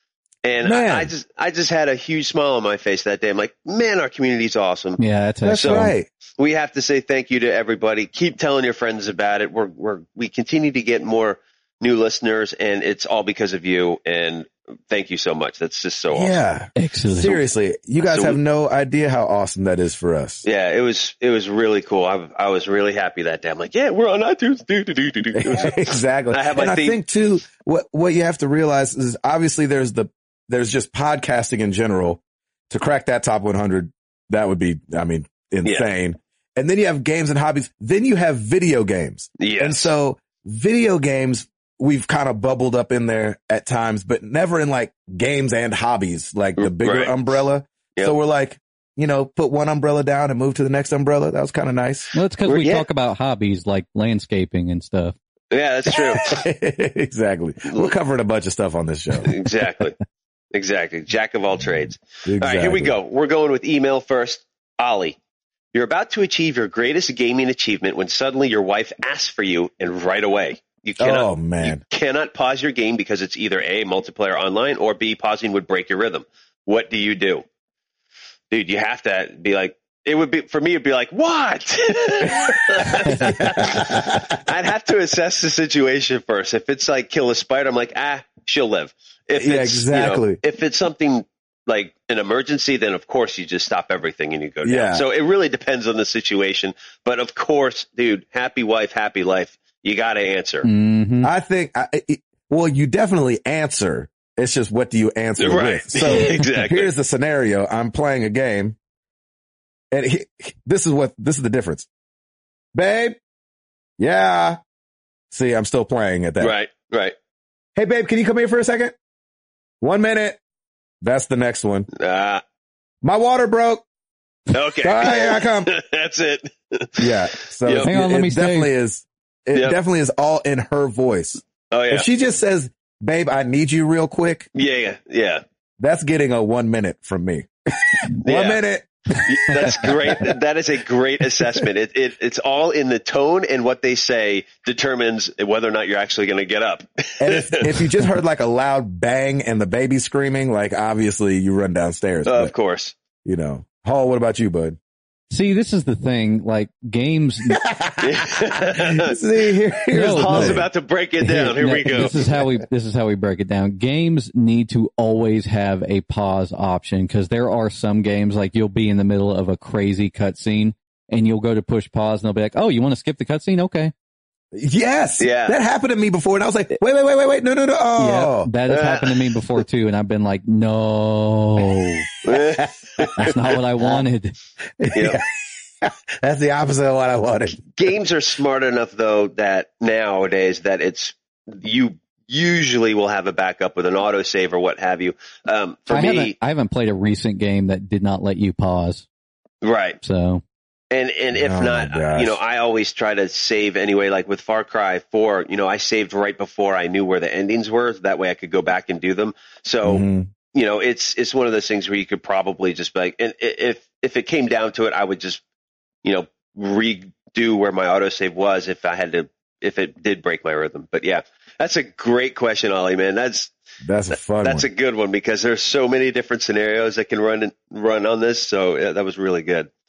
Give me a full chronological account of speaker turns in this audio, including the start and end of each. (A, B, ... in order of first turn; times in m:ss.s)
0:00.4-0:05.0 A
0:00.6-0:01.1 B
0:05.0-0:05.9 C
0:05.4-0:06.1 B
0:05.5-0:16.4 A
0:16.1-0:20.4 B
0:16.8-0:17.4 C
0:18.0-0:18.4 A
0:20.4-0:27.0 A
0:25.3-0:52.1 B
0:39.4-0:39.9 A
0:46.6-0:47.2 A
0:52.1-0:55.1 C
0:52.4-0:52.8 A
0:55.5-0:56.4 A
0:55.9-0:59.4 B
0:57.7-0:57.9 A
0:59.2-1:00.0 A
1:00.5-1:05.2 A
1:02.2-1:02.9 B
1:05.7-1:17.4 A
1:11.0-1:11.8 B
1:18.5-1:40.7 A
1:22.8-1:24.4 B
1:29.4-1:30.4 B
1:34.6-1:35.0 B
1:40.6-1:41.3 C
1:41.2-1:48.8 B
1:45.4-1:46.9 A
1:49.9-1:51.9 B
1:52.7-1:53.2 B
1:54.0-1:54.6 B
1:55.3-1:56.5 B
1:56.4-1:57.2 A
1:57.8-1:58.9 B
1:59.8-2:00.4 B
2:01.0-2:01.9 B
2:01.9-2:02.4 A
2:03.0-2:03.8 B
2:04.5-2:07.9 A
2:04.8-2:05.7 B
2:07.0-2:14.5 B
2:07.8-2:08.7 C
2:11.7-2:12.1 A
2:14.5-2:15.4 A
2:15.8-2:20.3 B
2:18.2-2:18.6 A
2:19.2-2:27.9 A
2:27.2-2:32.5 B
2:32.2-2:32.9 A
2:33.2-2:34.8 B
2:35.3-2:37.6 C
2:37.5-2:40.7 B
2:38.0-2:39.2 A
2:39.9-2:40.7 C
2:39.9-2:42.2 A
2:41.2-2:53.9 C
2:54.5-2:58.5 B
2:55.2-2:55.6 A
2:58.0-3:02.1 C
2:58.7-2:59.4 A
3:02.2-3:03.4 A
3:02.3-3:03.3 B
3:03.2-3:04.4 C
3:04.8-3:07.7 B
3:04.9-3:05.2 A
3:07.8-3:16.3 A
3:15.9-3:19.0 C
3:19.6-3:20.0 A
3:20.0-3:20.4 C
3:20.9-3:35.4 A
3:21.3-3:22.4 B
3:29.8-3:30.3 B
3:36.0-3:43.5 A
3:43.8-3:44.7 B
3:44.4-3:49.7 A